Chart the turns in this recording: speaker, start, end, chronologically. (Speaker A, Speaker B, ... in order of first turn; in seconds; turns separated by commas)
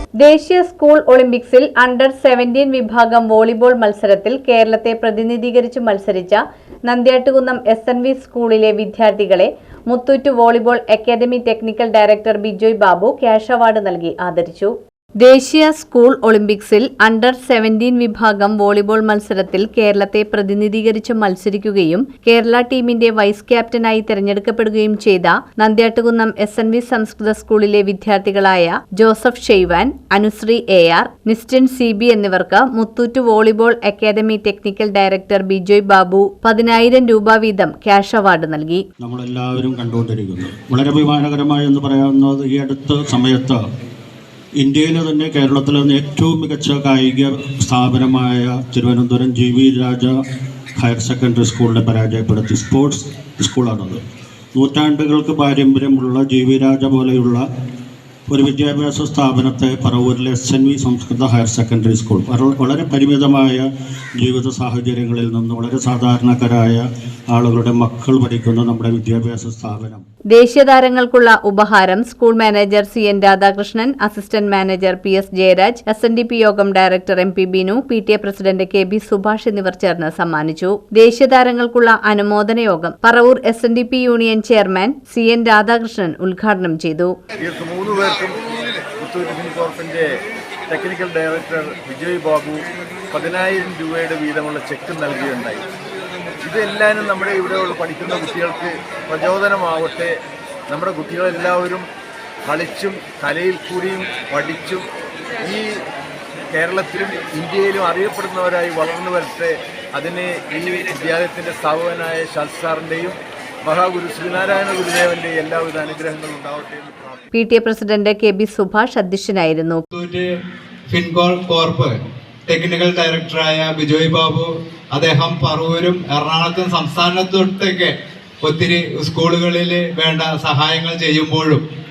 Speaker A: 0.2-38.8, Speaker B: 39.0-43.6, Speaker B: 44.6-50.2, Speaker B: 50.7-54.0, Speaker B: 54.5-57.4, Speaker B: 58.3-63.7, Speaker B: 64.2-70.0, Speaker A: 70.3-87.1, Speaker C: 87.4-90.0, Speaker C: 90.7-95.6, Speaker C: 96.4-100.2, Speaker C: 100.7-101.8, Speaker C: 102.5-104.9, Speaker C: 105.4-105.7, Speaker C: 106.5-117.2, Speaker A: 117.3-119.8, Speaker D: 119.9-120.2, Speaker D: 120.9-122.0, Speaker D: 122.5-131.6